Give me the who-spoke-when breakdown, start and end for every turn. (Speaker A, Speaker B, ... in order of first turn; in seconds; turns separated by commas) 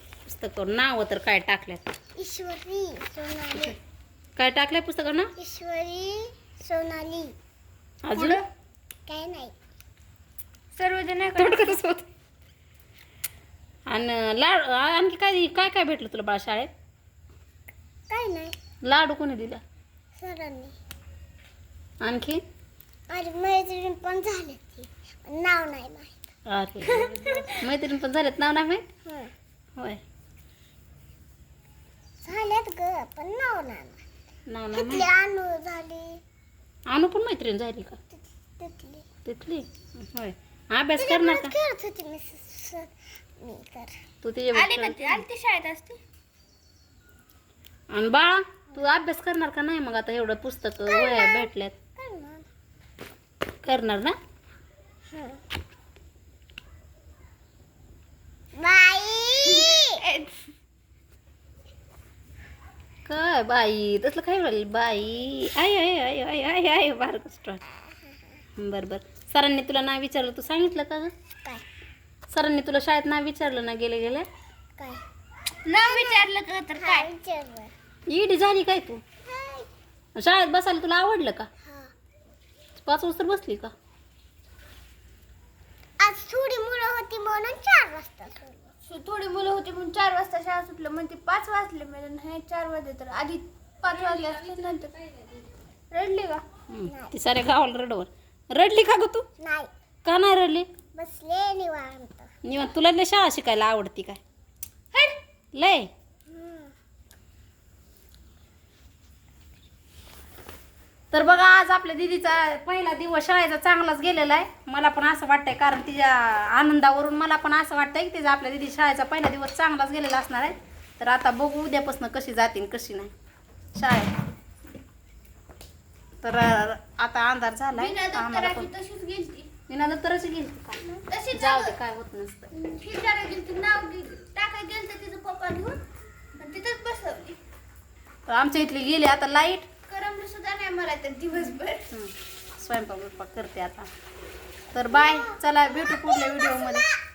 Speaker A: 0.2-1.8, Speaker B: 2.1-3.8, Speaker A: 4.3-5.3, Speaker B: 5.3-7.3, Speaker A: 8.0-8.4, Speaker C: 8.1-8.5, Speaker B: 9.1-9.5, Speaker C: 10.8-11.8, Speaker A: 11.3-12.1, Speaker A: 13.9-16.7, Speaker B: 18.1-18.5, Speaker A: 18.8-19.6, Speaker B: 20.2-20.8, Speaker A: 22.0-22.4, Speaker B: 23.1-26.1, Speaker A: 26.5-28.9, Speaker C: 26.9-27.5, Speaker B: 29.1-29.3, Speaker B: 32.2-34.0, Speaker A: 34.5-35.1, Speaker B: 34.7-36.2, Speaker A: 36.9-38.0, Speaker B: 38.1-39.0, Speaker A: 39.2-41.5, Speaker B: 40.9-44.0, Speaker A: 44.2-45.2, Speaker C: 44.5-46.0, Speaker A: 47.9-51.8, Speaker B: 50.9-52.5, Speaker A: 53.6-54.1, Speaker B: 55.1-55.4, Speaker B: 58.6-60.0, Speaker C: 59.5-60.4, Speaker A: 63.1-67.6, Speaker B: 67.8-68.4, Speaker A: 68.6-71.1, Speaker A: 72.3-74.2, Speaker C: 75.6-77.1, Speaker B: 75.7-77.7, Speaker A: 78.1-79.0, Speaker B: 79.2-79.7, Speaker A: 80.1-81.5, Speaker B: 81.6-81.9, Speaker A: 82.8-83.7, Speaker B: 86.0-88.7, Speaker C: 88.8-96.4, Speaker A: 96.7-99.3, Speaker B: 96.8-97.2, Speaker B: 99.4-99.7, Speaker A: 100.0-100.7, Speaker B: 100.9-102.3, Speaker A: 102.4-104.2, Speaker A: 105.5-105.9, Speaker B: 106.3-106.7, Speaker A: 111.1-123.1, Speaker A: 123.8-124.1, Speaker A: 126.2-128.7, Speaker C: 127.8-129.5, Speaker A: 129.7-132.5, Speaker C: 131.1-131.8, Speaker C: 132.5-135.8, Speaker C: 136.4-137.4, Speaker A: 138.3-139.7, Speaker C: 139.9-141.8, Speaker A: 141.9-143.9, Speaker A: 144.7-146.8, Speaker B: 144.9-146.9